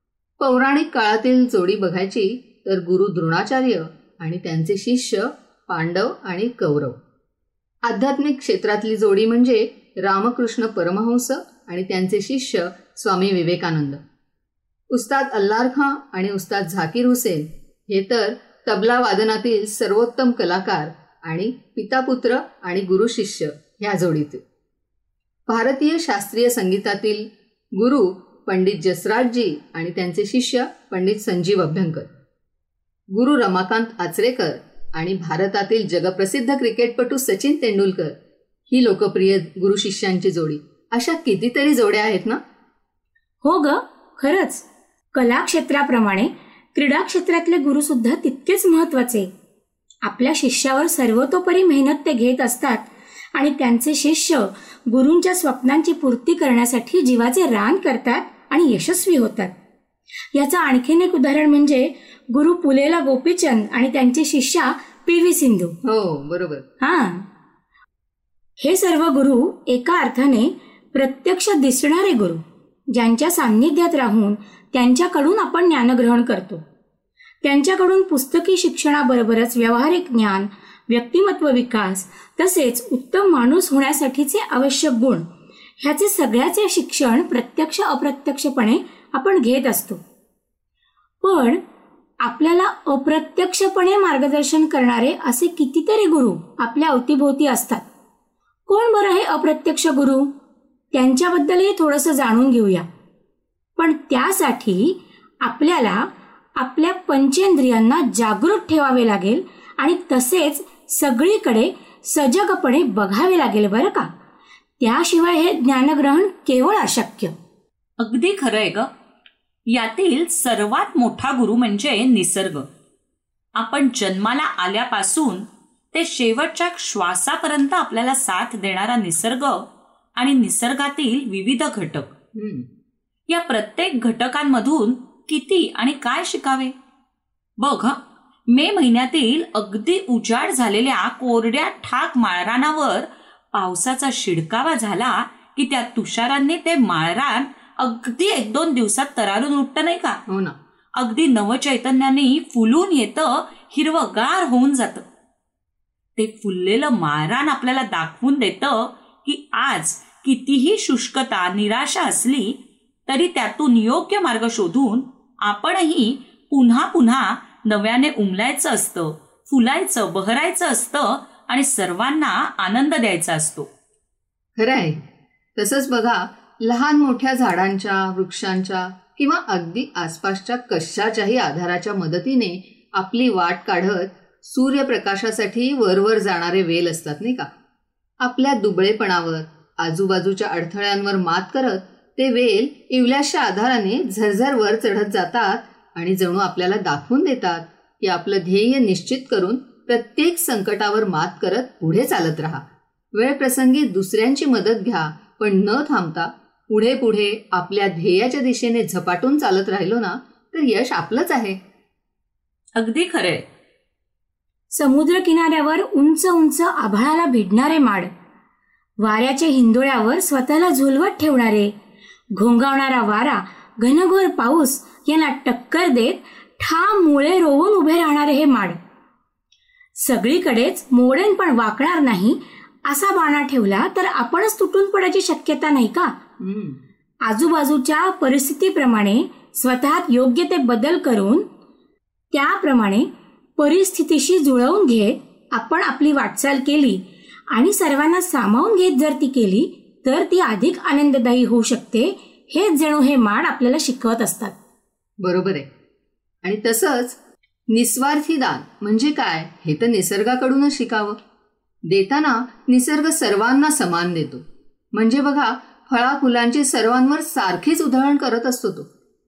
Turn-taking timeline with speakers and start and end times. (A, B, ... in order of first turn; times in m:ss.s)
0:00.4-0:07.0 A
0:07.8-0:14.0 A
0:14.9-0:24.4 A
0:25.5-0:32.1 A
0:33.1-0:38.2 A
0:38.7-0:42.4 A
0:43.4-0:49.3 B
0:50.0-0:59.5 B
1:00.3-1:05.8 B
1:05.8-1:06.6 A
1:06.8-1:07.3 B
1:08.6-1:16.6 B
1:17.4-1:25.2 B
1:25.8-1:30.0 B
1:31.2-1:31.6 B
1:32.2-1:37.8 B
1:38.7-1:40.3 B
1:40.9-1:42.8 B
1:43.8-1:54.1 B
1:54.8-1:57.3 B
1:58.0-1:58.9 C
1:59.7-2:02.6 C
2:03.5-2:12.1 C
2:12.3-2:12.7 A
2:13.3-2:16.7 C
2:17.6-2:30.2 C
2:30.3-2:30.6 A
2:31.0-2:35.0 C
2:36.2-2:53.7 C
2:54.6-2:55.0 A
2:55.6-3:07.5 A
3:08.2-3:31.6 A
3:32.8-3:33.4 C
3:34.7-3:38.1 B
3:39.0-3:41.7 B
3:42.4-3:48.8 B
3:50.0-3:56.2 B
3:56.4-3:56.8 A
3:57.2-4:01.4 B
4:02.3-4:14.6 B
4:15.2-4:15.7 A
4:16.4-4:17.2 A
4:17.7-4:21.2 A
4:21.9-4:28.9 A